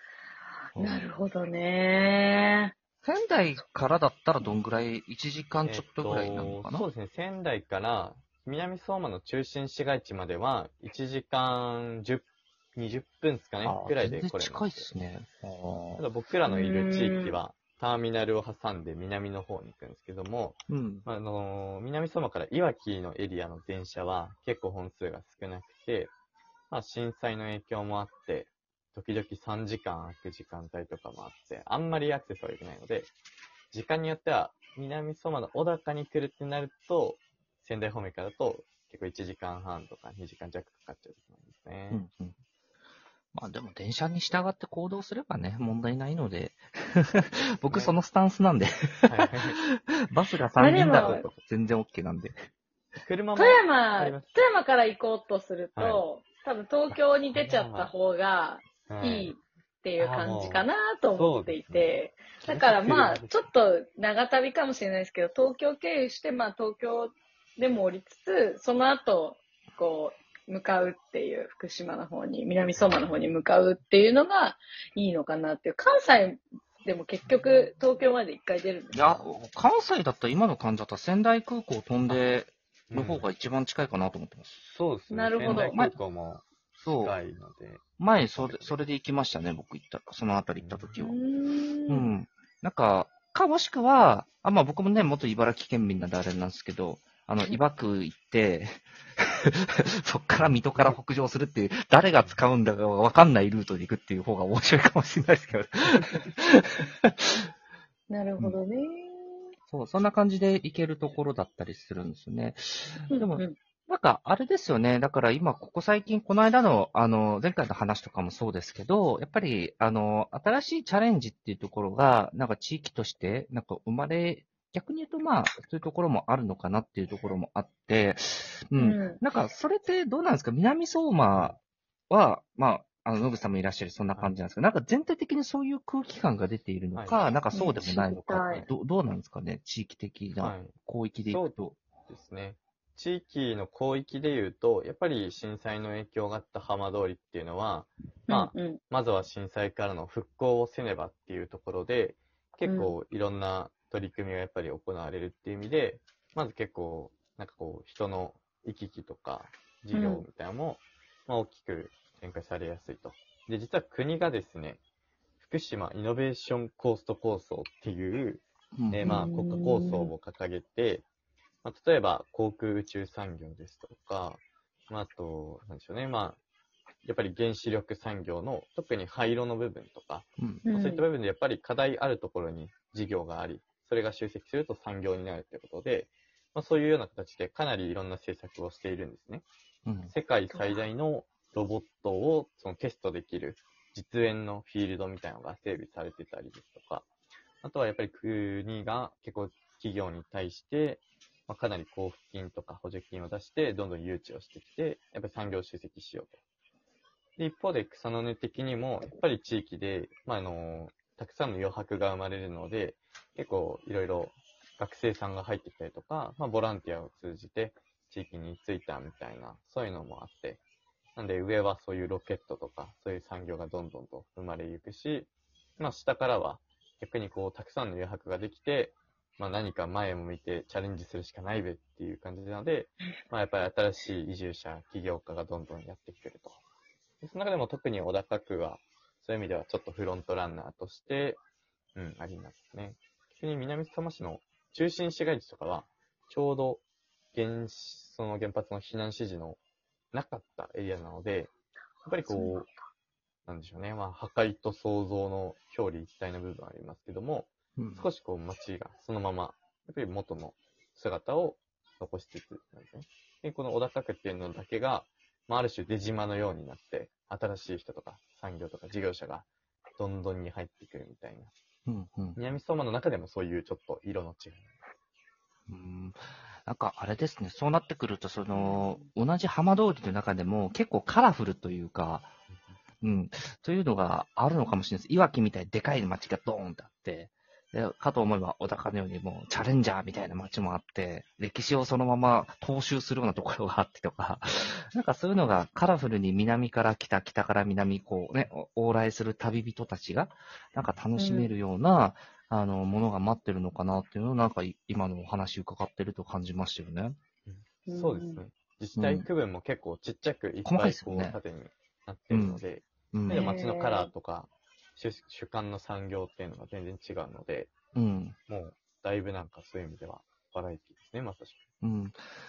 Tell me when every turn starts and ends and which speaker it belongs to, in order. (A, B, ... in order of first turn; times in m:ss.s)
0:00.8-0:01.1 A
0:00.8-0:02.7 B
0:03.0-0:06.9 C
0:05.6-0:14.9 A
0:13.6-0:16.0 C
0:16.0-0:26.1 A
0:16.5-0:17.4 B
0:20.7-0:21.1 C
0:26.7-0:33.1 A
0:33.7-0:42.1 A
0:41.9-0:42.4 C
0:43.3-0:49.1 C
0:47.7-0:48.0 A
0:49.1-0:49.6 A
0:50.1-0:52.4 C
0:50.6-0:51.3 B
0:50.8-0:51.4 A
0:53.0-0:54.4 A
0:53.4-1:19.3 B
0:55.8-0:56.0 A
0:56.9-0:57.9 A
0:58.9-0:59.3 A
1:00.0-1:03.4 A
1:12.8-1:13.3 A
1:18.9-1:24.5 C
1:22.9-1:23.3 A
1:24.6-1:26.5 A
1:25.1-1:25.8 B
1:25.4-1:26.0 C
1:26.8-1:27.2 C
1:27.0-1:28.8 A
1:28.0-1:31.2 C
1:30.6-1:31.0 A
1:31.0-1:32.1 B
1:31.9-1:47.2 C
1:40.4-1:41.0 A
1:48.1-1:49.5 B
1:49.7-2:11.6 C
1:53.1-1:53.6 B
2:08.8-2:09.2 B
2:11.3-2:11.6 A
2:12.1-2:21.8 C
2:16.9-2:17.2 A
2:17.5-2:18.7 B
2:20.4-2:44.8 A
2:28.3-2:28.8 B
2:32.7-2:32.9 B
2:39.9-2:40.2 B
2:45.4-2:51.0 A
2:48.8-2:49.2 C
2:49.0-2:50.1 B
2:51.6-2:56.4 A
2:57.0-3:09.5 A
3:00.4-3:00.6 C
3:00.7-3:01.0 B
3:09.9-3:10.1 C
3:10.1-3:17.1 A
3:10.5-3:10.8 B
3:17.6-3:26.4 A
3:27.4-3:40.6 A
3:41.2-3:56.6 A
3:57.2-4:01.4 A
4:02.0-4:06.8 A
4:07.3-4:09.6 A
4:10.1-4:11.5 A
4:12.0-4:12.7 A
4:12.2-4:12.7 B
4:13.5-4:29.5 A
4:17.8-4:18.1 C
4:30.0-4:31.5 A
4:31.9-4:32.4 C
4:32.4-4:34.7 A
4:35.7-4:42.3 C
4:43.0-5:07.2 C
5:01.2-5:01.5 B
5:07.5-5:17.7 A
5:07.9-5:08.4 B
5:09.0-5:09.3 C
5:10.6-5:11.4 C
5:12.3-5:12.6 C
5:13.1-5:13.6 C
5:13.3-5:14.1 B
5:18.0-5:18.4 C
5:18.5-5:21.6 A
5:21.8-5:22.2 C